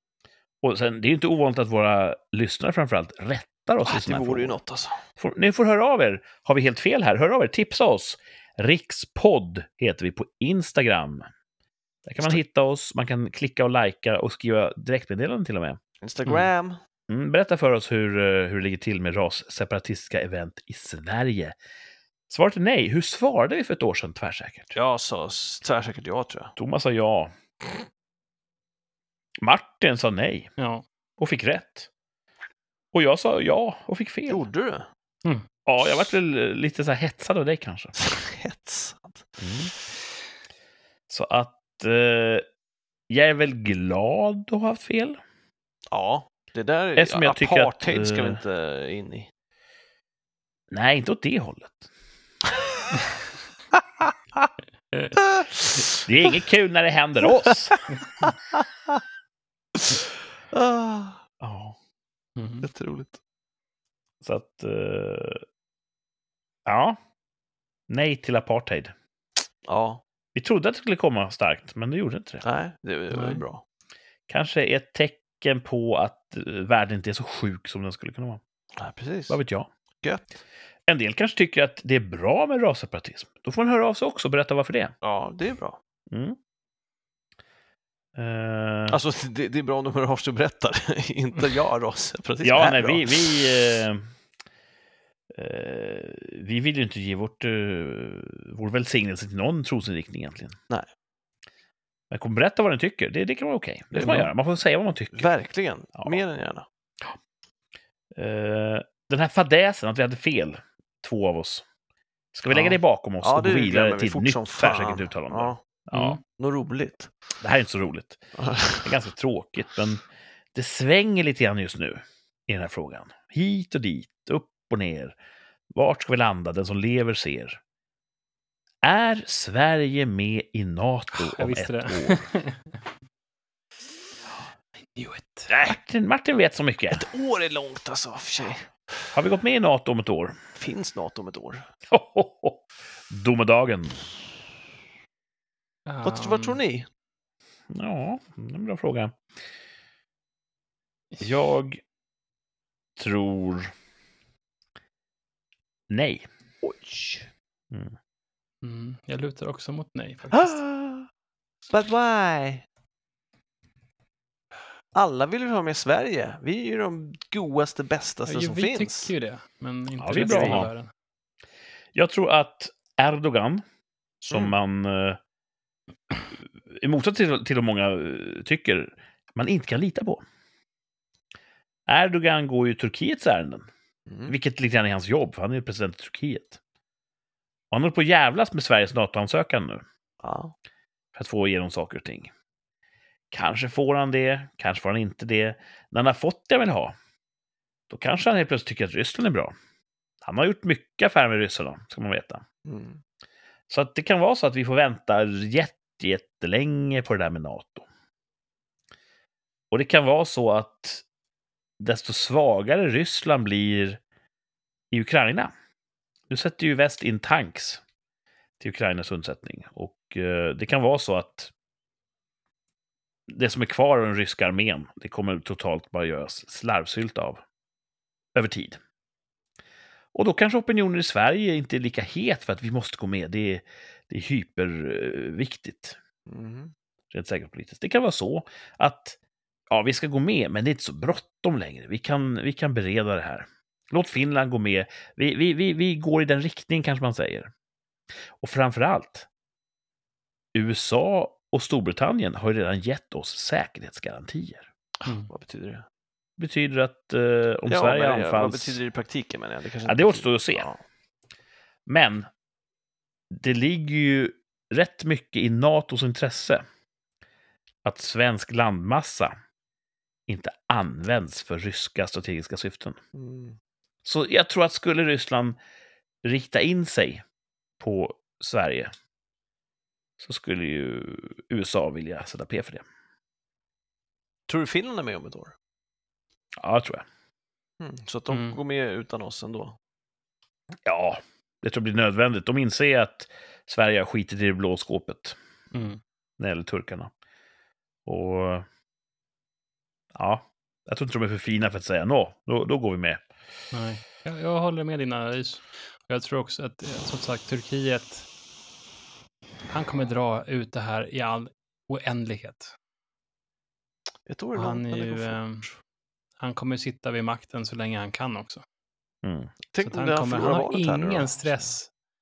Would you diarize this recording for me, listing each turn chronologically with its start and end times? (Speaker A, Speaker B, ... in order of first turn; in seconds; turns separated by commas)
Speaker A: 0.6-4.6, Speaker B: 3.9-5.0, Speaker A: 5.2-11.3, Speaker A: 12.1-15.8, Speaker B: 16.0-16.8, Speaker A: 17.1-21.6, Speaker A: 22.3-24.7, Speaker B: 24.7-26.5, Speaker A: 26.6-27.3, Speaker A: 29.4-30.5, Speaker C: 30.6-30.8, Speaker A: 31.2-31.9, Speaker A: 32.9-34.5, Speaker B: 34.3-34.9, Speaker A: 35.6-38.0, Speaker B: 38.0-39.3, Speaker A: 39.4-39.7, Speaker A: 41.1-42.5, Speaker A: 43.1-45.2, Speaker B: 45.9-49.3, Speaker A: 47.0-48.4, Speaker A: 50.7-51.9, Speaker B: 53.7-54.5, Speaker B: 55.2-56.0, Speaker A: 56.0-57.8, Speaker B: 57.2-59.0, Speaker B: 59.7-61.2, Speaker A: 61.4-61.8, Speaker C: 62.4-62.7, Speaker B: 62.6-63.2, Speaker A: 64.2-65.4, Speaker A: 66.7-67.0, Speaker A: 67.9-68.9, Speaker B: 69.7-70.0, Speaker A: 70.3-72.5, Speaker B: 72.4-73.6, Speaker C: 73.1-73.4, Speaker A: 74.3-78.4, Speaker B: 78.8-79.4, Speaker A: 79.3-79.7, Speaker A: 80.9-84.9, Speaker B: 85.0-85.8, Speaker A: 86.1-86.4, Speaker A: 88.2-89.0, Speaker B: 88.9-93.4, Speaker A: 92.4-94.1, Speaker A: 95.3-100.6, Speaker A: 102.1-105.3, Speaker B: 103.9-104.3, Speaker B: 105.1-106.7, Speaker A: 108.1-111.6, Speaker A: 112.3-116.2, Speaker B: 112.5-115.6, Speaker C: 115.9-116.2, Speaker B: 116.3-117.1, Speaker A: 117.4-118.2, Speaker B: 118.4-118.9, Speaker A: 118.8-125.2, Speaker A: 125.7-127.6, Speaker A: 128.8-132.3, Speaker C: 131.1-132.6, Speaker C: 134.8-135.5, Speaker B: 135.5-135.8, Speaker A: 135.6-137.1, Speaker B: 136.9-138.7, Speaker A: 139.1-140.4, Speaker B: 140.6-141.6, Speaker A: 141.9-144.0, Speaker C: 145.9-146.6, Speaker B: 146.0-146.9, Speaker A: 147.7-149.2, Speaker A: 151.2-151.8, Speaker A: 153.0-153.7, Speaker A: 155.9-156.3, Speaker B: 156.6-157.3, Speaker C: 158.6-160.6, Speaker B: 160.3-161.1, Speaker B: 161.7-162.6, Speaker B: 164.9-169.1, Speaker C: 168.3-170.9, Speaker A: 170.0-170.7, Speaker B: 170.3-170.6, Speaker A: 171.9-173.6, Speaker A: 174.2-175.2, Speaker A: 176.7-180.2, Speaker A: 181.9-183.7, Speaker B: 184.1-184.3, Speaker A: 184.3-186.6, Speaker A: 187.7-189.8, Speaker B: 190.2-190.5, Speaker A: 191.1-192.3, Speaker A: 193.3-196.9, Speaker A: 197.9-199.6, Speaker A: 200.2-202.4, Speaker B: 202.6-203.0, Speaker A: 203.7-207.9, Speaker A: 209.7-211.0, Speaker A: 211.8-214.0, Speaker A: 214.9-215.5, Speaker A: 216.3-217.8, Speaker A: 218.6-221.5, Speaker A: 223.3-227.4, Speaker A: 228.3-228.8, Speaker A: 230.1-236.0, Speaker B: 236.3-236.7, Speaker A: 237.1-239.2, Speaker A: 239.7-247.5, Speaker A: 248.4-249.3, Speaker A: 250.6-254.7, Speaker B: 255.0-255.9, Speaker C: 255.1-255.3, Speaker A: 256.4-258.8, Speaker B: 257.7-260.8, Speaker A: 259.9-260.7, Speaker A: 261.9-262.3, Speaker A: 263.3-266.6, Speaker A: 267.9-269.4, Speaker A: 270.3-273.0, Speaker B: 273.1-273.6, Speaker A: 274.1-275.6, Speaker A: 276.2-277.2, Speaker A: 277.8-278.9, Speaker A: 280.2-282.9, Speaker B: 284.5-285.6, Speaker A: 286.6-287.1, Speaker B: 287.8-289.8, Speaker C: 288.3-288.6, Speaker A: 290.9-295.4, Speaker C: 295.7-296.0, Speaker A: 296.4-297.1, Speaker A: 298.1-298.7, Speaker A: 300.1-303.2, Speaker C: 303.7-308.3, Speaker C: 309.7-312.7, Speaker B: 314.3-315.7, Speaker C: 314.6-315.7, Speaker C: 316.4-318.6, Speaker A: 319.2-319.5, Speaker B: 319.7-321.7, Speaker C: 319.8-321.9